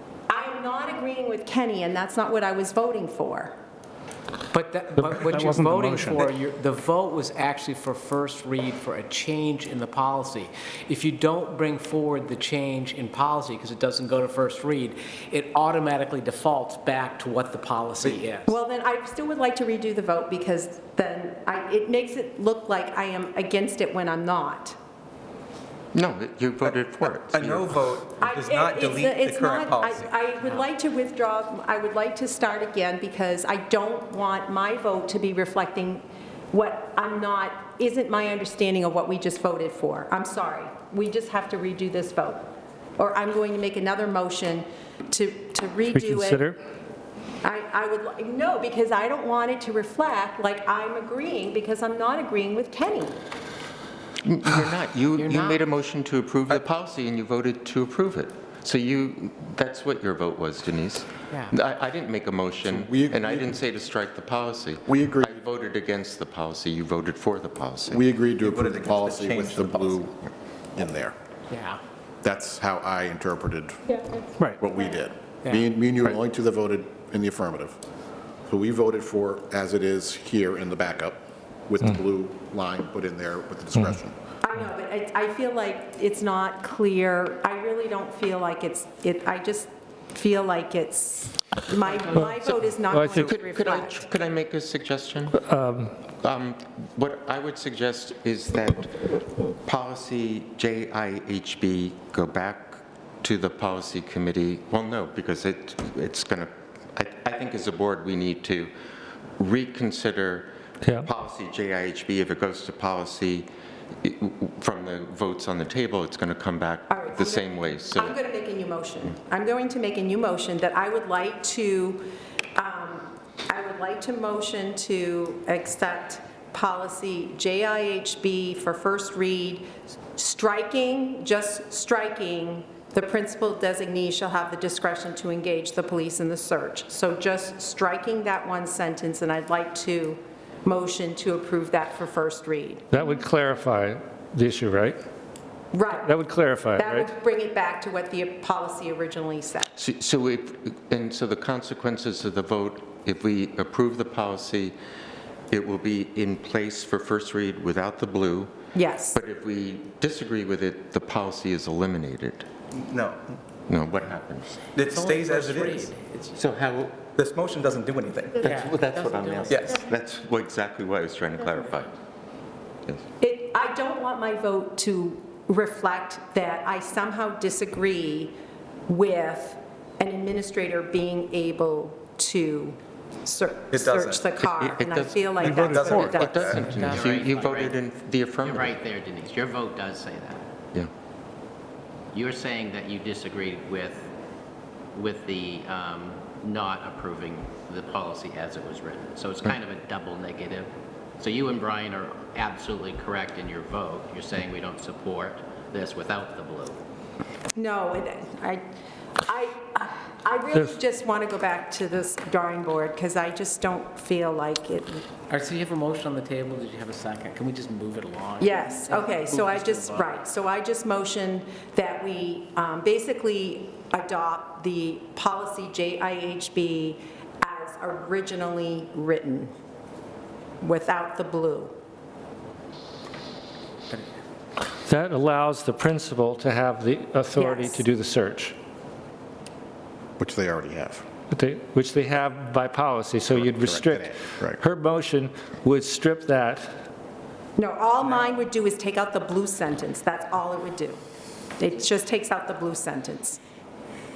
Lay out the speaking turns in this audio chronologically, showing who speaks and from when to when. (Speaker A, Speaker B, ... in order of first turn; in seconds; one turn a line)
Speaker A: 0.3-3.5
Speaker B: 4.5-18.6
Speaker C: 5.0-6.3
Speaker A: 18.5-24.8
Speaker D: 25.9-27.9
Speaker E: 27.2-30.1
Speaker A: 28.2-46.5
Speaker C: 45.9-46.6
Speaker A: 47.4-53.2
Speaker D: 54.2-68.1
Speaker B: 55.2-55.6
Speaker F: 62.7-63.6
Speaker F: 64.9-65.3
Speaker F: 67.9-71.2
Speaker E: 68.4-70.0
Speaker B: 71.5-71.8
Speaker F: 72.2-73.8
Speaker F: 74.6-77.8
Speaker B: 75.4-75.7
Speaker F: 78.5-84.2
Speaker A: 84.4-94.0
Speaker C: 92.8-93.3
Speaker D: 93.1-95.4
Speaker C: 95.4-95.9
Speaker D: 96.2-108.7
Speaker D: 109.4-113.5
Speaker D: 114.0-118.2
Speaker A: 116.9-142.9
Speaker C: 142.9-145.0
Speaker A: 145.7-146.2
Speaker C: 145.9-147.1
Speaker A: 146.8-149.7
Speaker D: 149.8-154.8
Speaker D: 155.5-158.5
Speaker A: 158.7-159.2
Speaker D: 159.1-162.5
Speaker E: 162.8-163.2
Speaker D: 163.7-164.7
Speaker E: 164.7-165.9
Speaker B: 164.8-166.5
Speaker D: 166.4-167.1
Speaker E: 167.1-168.3
Speaker B: 168.4-169.6
Speaker D: 168.4-171.9
Speaker A: 173.2-178.4
Speaker A: 178.9-186.5
Speaker E: 183.7-184.3
Speaker D: 184.4-188.8
Speaker C: 185.5-186.0
Speaker E: 185.5-186.7
Speaker B: 186.7-186.9
Speaker G: 186.8-187.8
Speaker G: 188.4-190.5
Speaker G: 192.1-194.1
Speaker G: 194.9-206.8
Speaker A: 207.6-208.6
Speaker A: 209.2-215.1
Speaker B: 215.3-220.1
Speaker A: 218.4-229.5
Speaker A: 230.6-231.7
Speaker C: 234.9-238.6
Speaker A: 237.3-237.8
Speaker F: 240.2-241.1
Speaker C: 241.3-246.7
Speaker F: 243.3-244.6
Speaker A: 247.6-251.0
Speaker A: 251.6-253.4